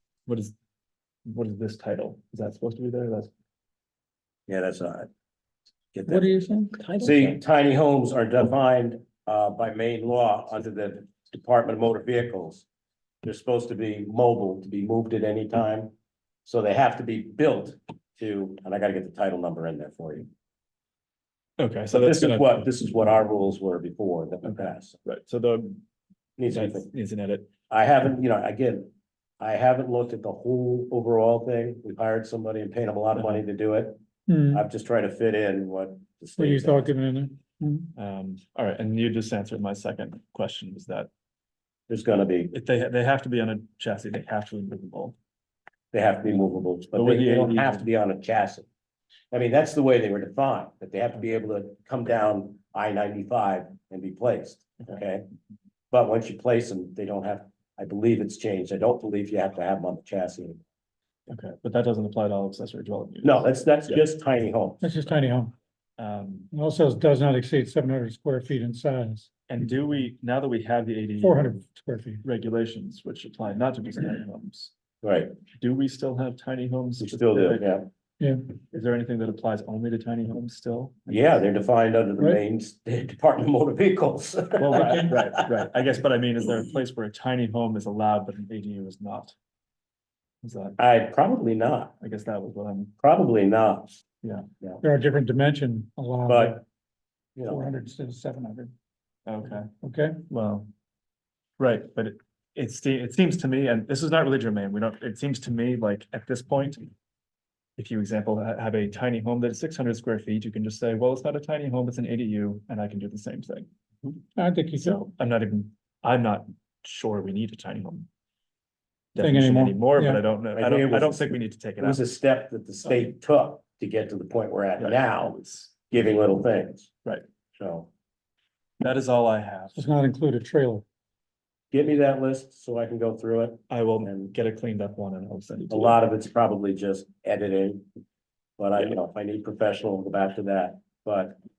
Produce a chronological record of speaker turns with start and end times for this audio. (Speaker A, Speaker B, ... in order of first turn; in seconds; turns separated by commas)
Speaker A: 0.3-0.5, Speaker A: 1.3-3.3, Speaker B: 4.5-5.1, Speaker B: 5.9-6.3, Speaker C: 6.1-7.1, Speaker B: 7.0-12.7, Speaker B: 13.2-15.9, Speaker B: 16.4-20.3, Speaker A: 21.6-22.7, Speaker B: 21.9-25.0, Speaker A: 24.4-25.8, Speaker B: 26.4-26.9, Speaker A: 26.5-27.5, Speaker B: 27.7-28.9, Speaker B: 29.4-34.0, Speaker A: 33.2-33.4, Speaker C: 34.3-34.7, Speaker B: 34.5-36.9, Speaker C: 36.4-37.9, Speaker A: 38.0-41.1, Speaker B: 41.9-42.5, Speaker A: 42.5-45.2, Speaker B: 45.9-48.7, Speaker A: 46.9-47.8, Speaker B: 49.3-55.2, Speaker B: 55.9-60.6, Speaker A: 61.3-64.0, Speaker B: 63.2-64.8, Speaker C: 64.8-65.5, Speaker A: 66.0-66.5, Speaker C: 66.5-69.3, Speaker A: 69.5-71.6, Speaker C: 71.2-72.2, Speaker A: 72.2-74.7, Speaker B: 75.0-75.3, Speaker A: 75.6-77.6, Speaker B: 77.0-77.9, Speaker A: 78.7-81.4, Speaker B: 81.1-85.4, Speaker A: 84.6-89.3, Speaker C: 84.7-85.1, Speaker A: 90.4-90.8, Speaker B: 90.8-91.9, Speaker A: 92.0-92.9, Speaker B: 93.0-94.0, Speaker C: 94.8-96.6, Speaker B: 96.3-96.6, Speaker B: 97.4-97.7, Speaker C: 97.5-98.7, Speaker A: 99.3-99.7, Speaker C: 99.8-100.2, Speaker A: 100.3-100.7, Speaker A: 101.6-106.9, Speaker A: 107.8-113.7, Speaker C: 114.4-115.0, Speaker A: 114.8-118.1, Speaker A: 119.1-122.0, Speaker C: 119.2-120.2, Speaker B: 120.5-121.2, Speaker B: 121.8-125.4, Speaker A: 124.8-125.7, Speaker B: 125.9-126.9, Speaker B: 127.6-127.9, Speaker A: 128.8-129.9, Speaker C: 129.8-130.8, Speaker B: 131.7-134.3, Speaker A: 133.7-136.0, Speaker B: 135.7-137.8, Speaker B: 138.6-141.4